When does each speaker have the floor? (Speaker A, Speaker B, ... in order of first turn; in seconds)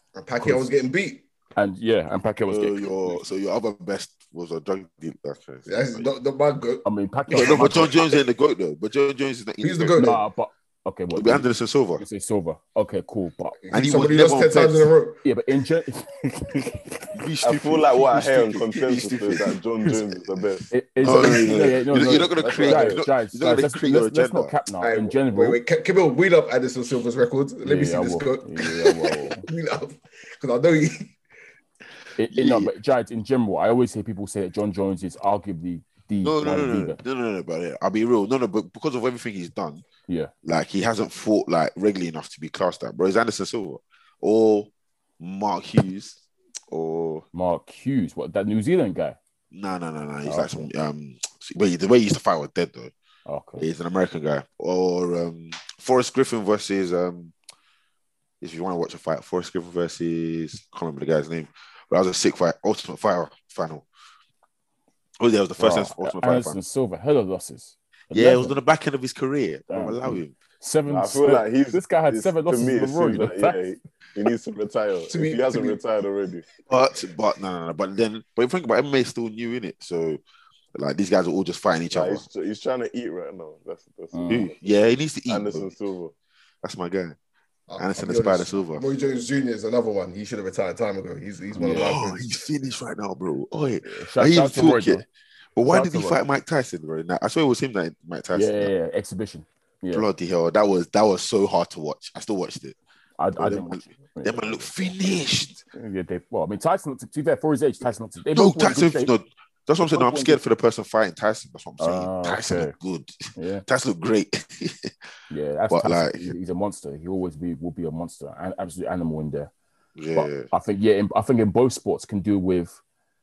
Speaker A: 0.1-1.2, 5.7-7.9, 9.6-10.2, 13.6-15.2, 24.8-31.1, 75.1-75.8, 87.7-92.2
Speaker B: 0.4-0.7, 1.6-3.2, 6.8-7.9, 10.0-11.5, 12.0-13.6, 15.2-17.0, 20.7-25.6, 27.6-29.4, 32.2-37.0, 47.3-49.2, 50.2-50.7, 53.2-53.6, 65.6-68.5, 69.7-73.6, 84.1-84.5, 91.5-91.9, 93.8-95.0, 95.7-96.2, 98.3-100.0, 103.2-104.7, 105.7-109.1, 109.9-110.4, 111.8-112.7, 113.3-113.6, 115.3-119.5, 120.1-122.8
Speaker C: 2.5-6.1, 7.3-10.1, 11.1-12.0, 13.7-14.9, 17.1-19.6, 21.0-24.5, 32.3-32.7, 36.2-39.8, 40.4-47.2, 49.5-52.9, 53.6-57.3, 58.4-63.9, 65.2-66.6, 68.1-70.3, 76.7-80.2, 80.7-82.2, 84.3-85.7, 86.6-87.2, 87.8-88.9, 91.6-95.0, 95.5-98.7, 99.9-102.8, 103.3-105.6, 108.3-114.9, 115.7-116.3, 120.0-120.5
Speaker D: 17.4-23.0, 70.9-76.5, 81.9-84.5, 85.3-86.1